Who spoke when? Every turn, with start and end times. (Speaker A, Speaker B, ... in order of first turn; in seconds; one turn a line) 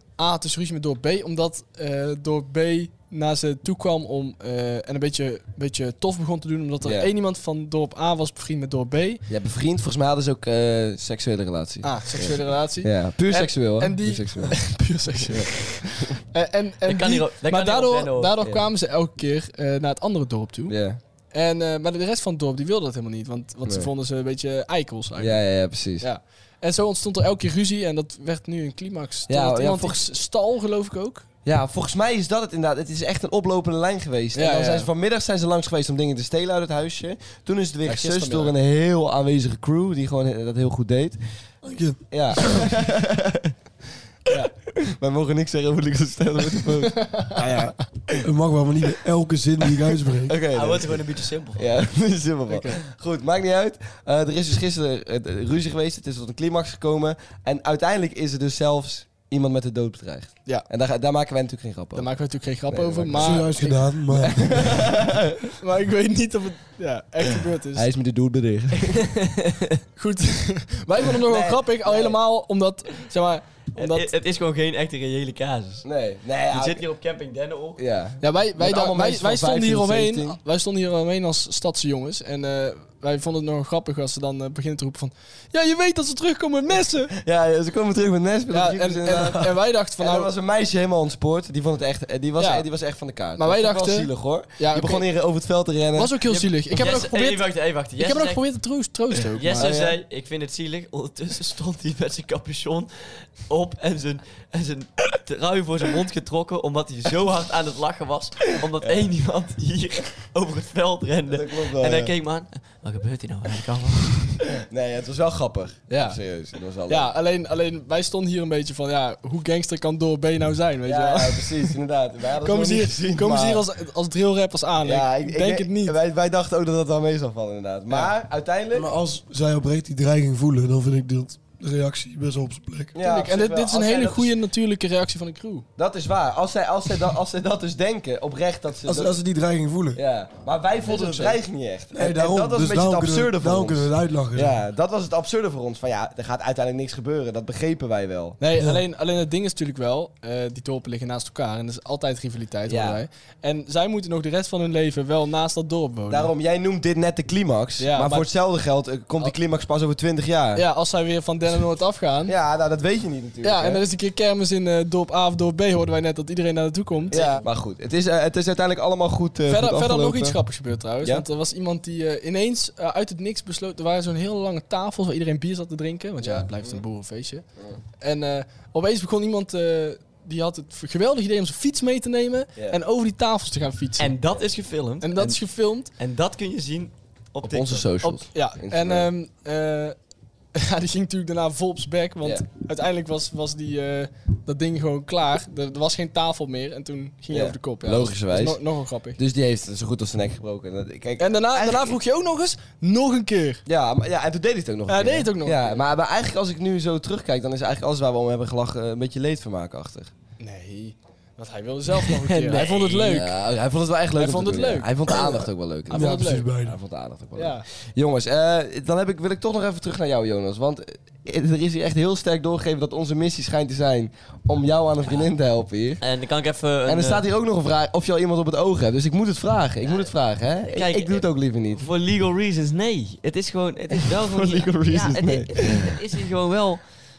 Speaker A: 0.2-9.2
Speaker B: 6.8-7.1
Speaker B: 9.3-14.6
Speaker A: 11.8-20.8
Speaker B: 15.2-16.2
Speaker C: 16.8-18.4
Speaker B: 18.4-18.7
Speaker B: 20.7-21.0
Speaker A: 21.3-25.4
Speaker B: 25.2-26.1
Speaker A: 26.0-31.3
Speaker B: 29.3-30.0
Speaker B: 31.4-41.2
Speaker A: 34.3-34.9
Speaker A: 37.9-38.5
Speaker D: 41.6-42.1
Speaker B: 42.1-43.5
Speaker B: 44.3-48.1
Speaker A: 47.0-47.4
Speaker D: 48.2-50.4
Speaker B: 50.2-51.0
Speaker C: 50.5-51.8
Speaker B: 51.5-63.5
Speaker A: 52.5-52.8
Speaker A: 62.0-63.9
Speaker D: 63.1-64.7
Speaker B: 64.1-65.5
Speaker A: 65.6-67.9
Speaker B: 67.7-69.1
Speaker C: 68.9-69.6
Speaker A: 70.0-74.1
Speaker B: 71.0-72.2
Speaker C: 73.8-75.8
Speaker B: 75.8-76.8
Speaker C: 76.5-77.8
Speaker B: 77.8-80.4
Speaker A: 78.2-87.1
Speaker B: 87.1-96.2
Speaker A: 88.5-90.3
Speaker A: 92.4-92.7
Speaker A: 93.4-95.1
Speaker A: 96.0-99.7
Speaker C: 96.3-98.4
Speaker C: 99.4-114.5
Speaker B: 99.5-100.0
Speaker B: 108.8-109.1
Speaker B: 111.3-112.1
Speaker B: 114.5-117.1
Speaker A: 115.9-116.2
Speaker A: 116.9-121.8
Speaker B: 120.8-123.7
Speaker A: 122.4-126.0
Speaker B: 124.8-128.9
Speaker D: 128.8-132.9
Speaker B: 132.9-134.3
Speaker A: 133.0-135.7
Speaker B: 135.8-139.2
Speaker D: 138.8-140.0
Speaker B: 139.9-148.4
Speaker A: 140.9-141.3
Speaker D: 141.9-144.6
Speaker A: 148.4-156.3
Speaker B: 152.7-153.0
Speaker B: 156.1-160.6
Speaker A: 157.8-158.3
Speaker A: 160.6-162.3
Speaker B: 162.2-163.8
Speaker A: 163.4-167.4
Speaker B: 167.1-170.4
Speaker C: 167.1-167.4
Speaker A: 169.5-177.4
Speaker B: 176.2-176.8
Speaker A: 178.0-184.2
Speaker C: 184.0-188.0
Speaker A: 185.0-185.9
Speaker B: 187.4-189.1
Speaker A: 188.0-190.0
Speaker A: 190.6-199.2
Speaker B: 197.3-198.6
Speaker B: 199.2-202.0
Speaker A: 201.2-203.6
Speaker B: 203.7-210.1
Speaker A: 204.9-205.8
Speaker A: 210.4-213.3
Speaker C: 212.2-213.2
Speaker B: 212.7-226.0
Speaker A: 214.2-215.3
Speaker A: 215.9-216.5
Speaker D: 215.9-216.8
Speaker A: 217.4-217.7
Speaker C: 226.0-227.2
Speaker B: 226.8-231.9
Speaker C: 229.8-230.1
Speaker C: 230.6-236.8
Speaker B: 233.9-236.0